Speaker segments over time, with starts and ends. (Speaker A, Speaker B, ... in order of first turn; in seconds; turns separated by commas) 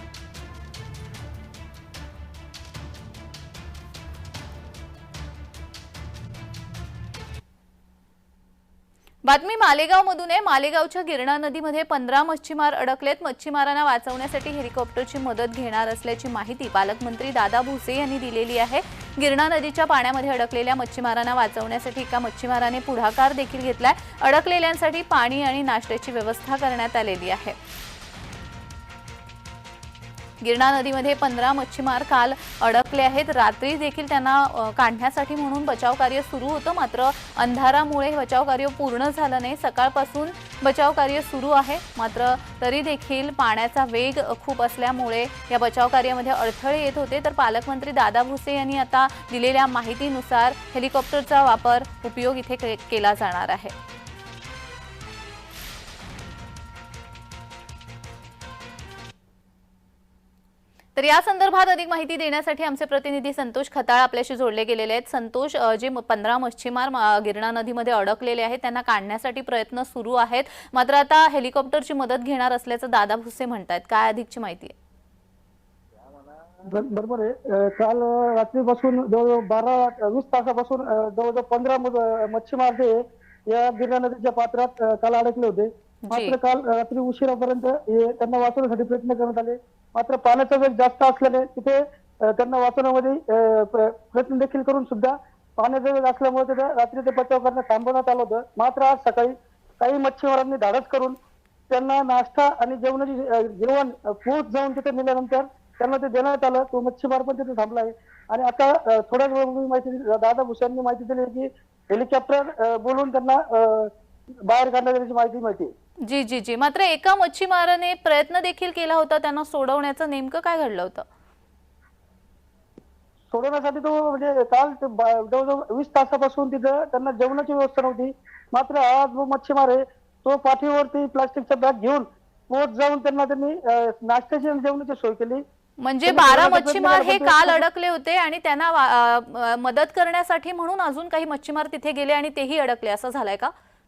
Speaker A: 9.2-27.6, Speaker A: 30.4-53.8, Speaker A: 61.0-74.8, Speaker B: 76.7-83.0, Speaker B: 83.5-101.2, Speaker A: 86.1-86.4, Speaker B: 101.7-113.9, Speaker B: 114.4-115.7, Speaker A: 116.0-121.1, Speaker B: 123.3-135.4, Speaker A: 135.8-143.5, Speaker B: 136.1-137.7